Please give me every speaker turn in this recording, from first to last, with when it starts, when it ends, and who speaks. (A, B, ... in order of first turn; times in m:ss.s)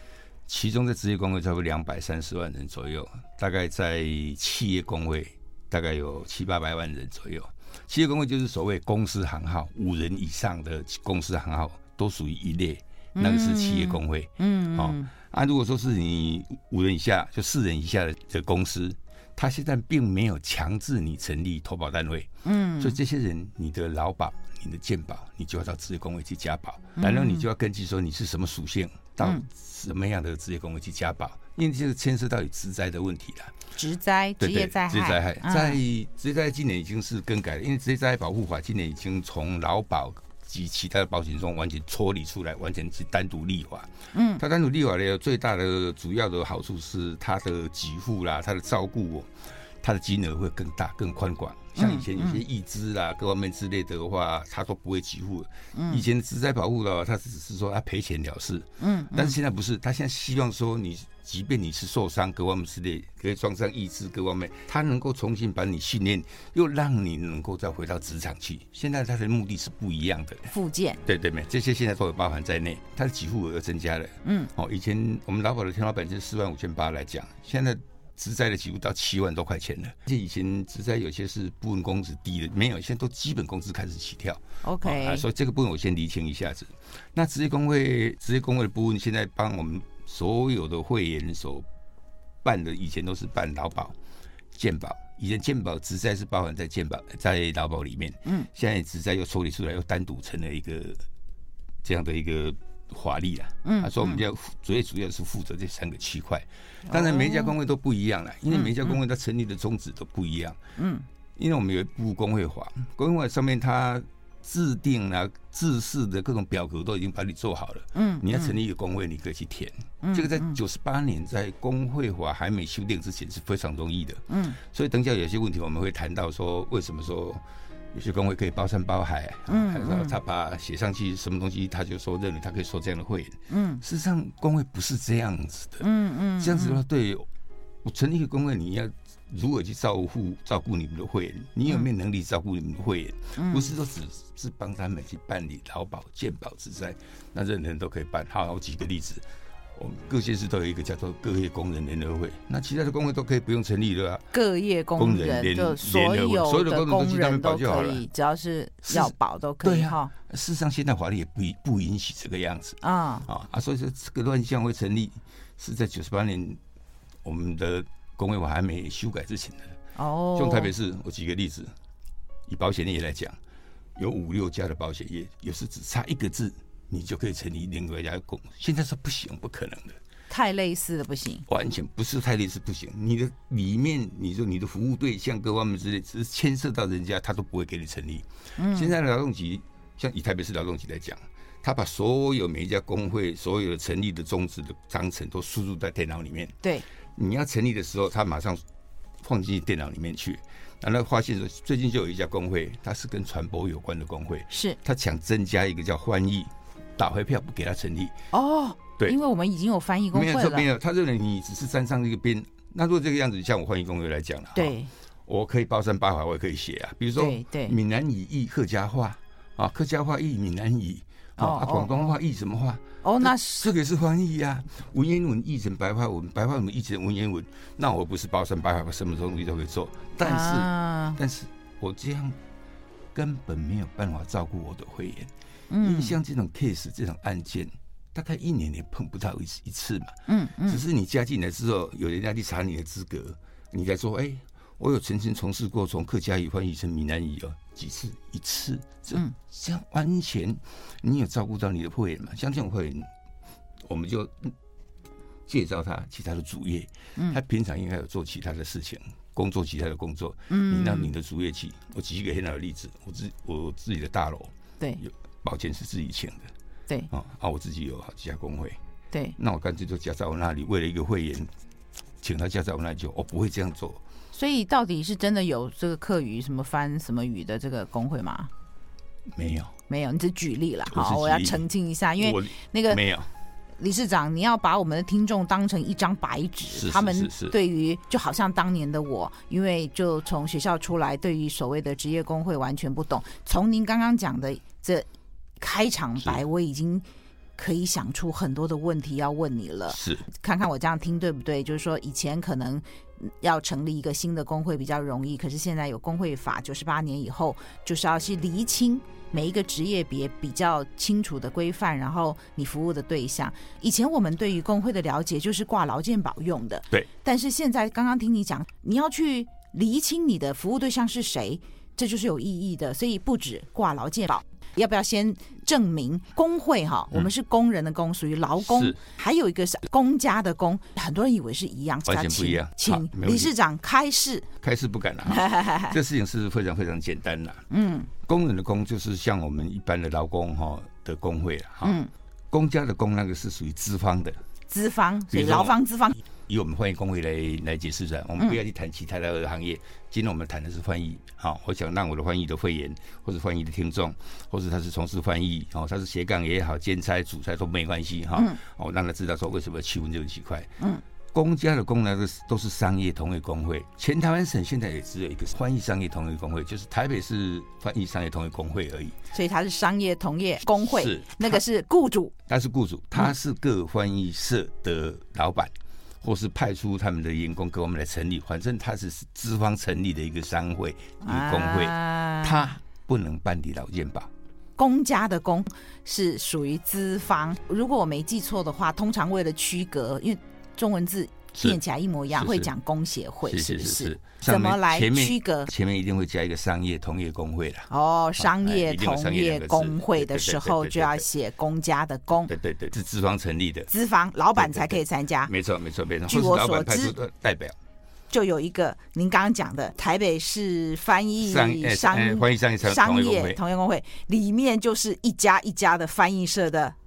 0:00.4-0:33.6 A
0:13.2-0:15.1 B
0:22.4-0:23.0 B
0:27.0-0:27.4 B
0:33.8-0:35.8 B
0:34.4-1:10.5 A
0:44.1-0:44.4 B
0:51.8-0:52.4 B
0:55.7-0:56.0 B
0:58.8-0:59.4 B
1:10.5-1:11.0 B
1:11.0-1:31.6 A
1:14.2-1:14.5 B
1:24.6-1:25.2 B
1:32.4-1:34.0 A
1:34.5-1:41.0 A
1:41.8-1:50.6 A
1:43.6-1:44.2 B
1:46.9-1:47.5 B
1:48.5-1:49.0 B
1:50.8-1:51.0 B
1:51.4-2:07.4 A
1:57.9-1:58.6 B
2:00.0-2:00.6 B
2:04.3-2:04.6 B
2:07.9-2:17.3 A
2:09.5-2:10.2 B
2:13.5-2:13.8 B
2:15.8-2:16.8 B
2:17.8-2:29.2 A
2:23.4-2:23.7 B
2:29.7-2:34.3 A
2:34.3-2:40.1 B
2:35.0-2:38.0 A
2:38.9-2:46.6 A
2:42.8-2:43.3 B
2:47.2-2:49.8 A
2:50.0-2:50.7 B
2:50.3-2:51.7 A
2:52.5-2:53.4 A
2:54.0-3:00.0 A
3:00.3-3:01.4 B
3:01.5-3:16.6 A
3:08.6-3:08.9 B
3:17.2-3:18.6 A
3:19.2-3:28.1 A
3:24.5-3:24.8 B
3:28.3-3:30.7 B
3:30.1-3:34.7 A
3:34.5-3:34.9 B
3:35.3-3:52.4 A
3:37.2-3:37.8 B
3:41.4-3:42.1 B
3:43.0-3:43.7 B
3:50.2-3:51.2 B
3:53.1-4:13.1 A
3:55.7-3:56.2 B
4:00.3-4:00.8 B
4:13.8-4:14.5 A
4:15.5-4:26.5 A
4:20.5-4:21.1 B
4:27.1-4:28.8 A
4:29.4-4:31.5 A
4:32.2-4:34.0 A
4:34.3-4:38.5 B
4:39.3-4:39.7 A
4:39.9-4:43.0 B
4:40.9-4:41.6 A
4:42.2-4:43.3 A
4:43.8-4:55.0 B
4:46.7-4:47.6 A
4:55.6-4:57.0 B
4:57.6-5:34.5 B
4:59.9-5:00.2 A
5:28.6-5:29.0 A
5:32.0-5:33.5 A
5:34.6-5:37.6 A
5:35.3-5:35.9 B
5:37.7-5:38.1 B
5:38.2-5:44.4 A
5:41.8-5:42.1 B
5:44.7-5:46.2 B
5:45.3-6:00.7 A
6:01.3-6:09.2 A
6:09.3-6:12.3 B
6:10.8-6:11.6 A
6:12.5-6:24.3 A
6:21.2-6:22.7 B
6:24.8-6:35.7 B
6:32.3-6:32.7 A
6:33.5-6:41.2 A
6:37.9-6:42.5 B
6:42.5-6:43.9 A
6:43.9-6:45.5 B
6:44.6-6:47.8 A
6:46.3-6:47.1 B
6:48.3-6:56.9 B
6:51.4-6:53.6 A